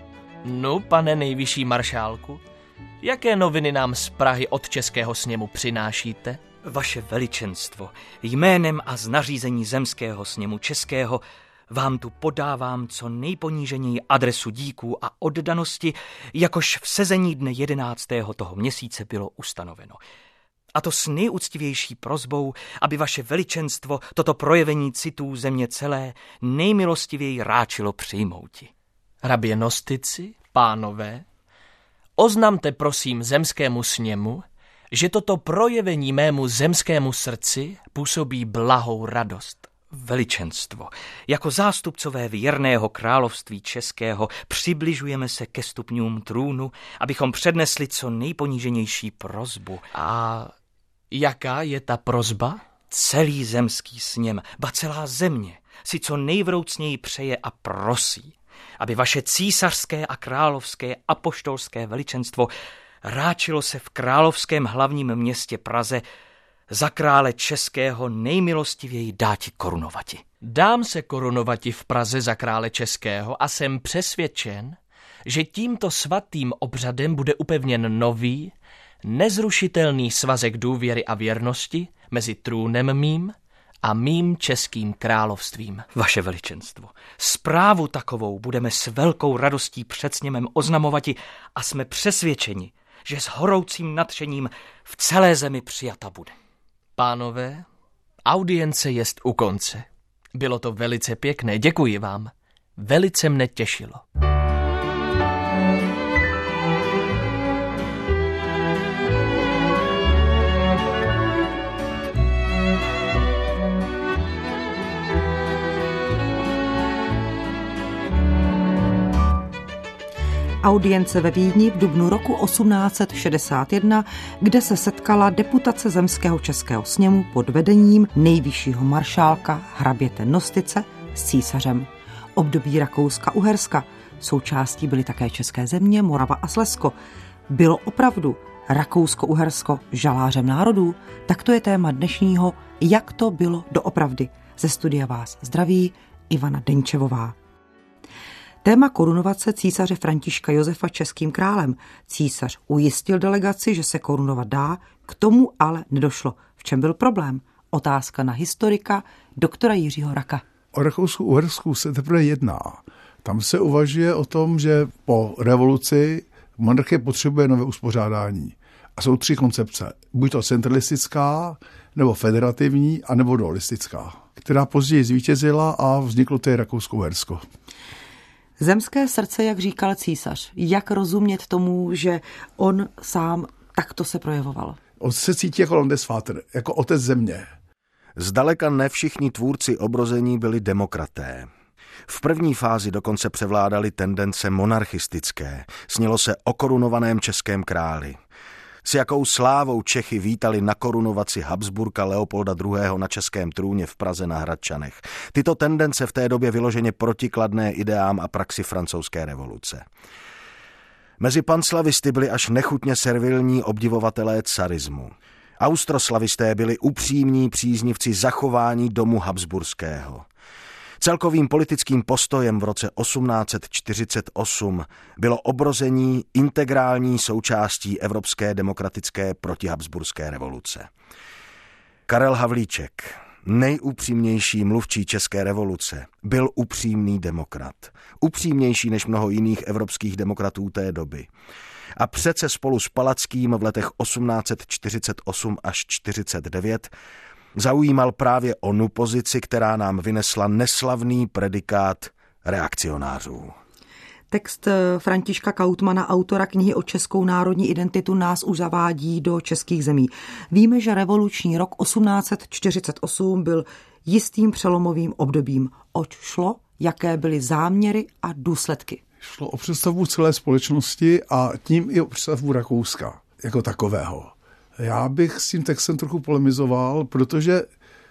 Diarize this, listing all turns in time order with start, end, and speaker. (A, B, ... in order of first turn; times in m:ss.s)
0:00.4-0:02.4 A
0:03.0-0:06.4 A
0:06.6-0:20.0 B
0:20.8-0:28.7 B
0:29.2-0:31.2 A
0:32.2-0:39.7 A
0:39.9-0:49.8 B
0:49.9-0:50.5 A
0:51.1-0:52.6 A
0:52.9-1:02.5 B
1:03.0-1:06.0 B
1:06.7-1:10.2 B
1:10.4-1:25.8 A
1:25.9-1:36.3 B
1:37.0-1:37.7 A
1:38.3-1:44.0 A
2:00.6-2:17.0 C
2:17.5-2:27.4 C
2:28.6-2:40.4 C
2:40.7-2:57.4 D
2:58.6-3:04.8 C
3:05.0-3:07.5 D
3:08.2-3:11.5 E
3:12.1-3:18.2 E
3:18.8-3:29.8 E
3:31.2-3:40.2 E
3:41.0-3:50.9 E
3:52.1-4:01.3 E
4:02.0-4:06.9 E
4:07.6-4:13.5 E
4:14.3-4:29.0 C
4:29.2-4:37.7 D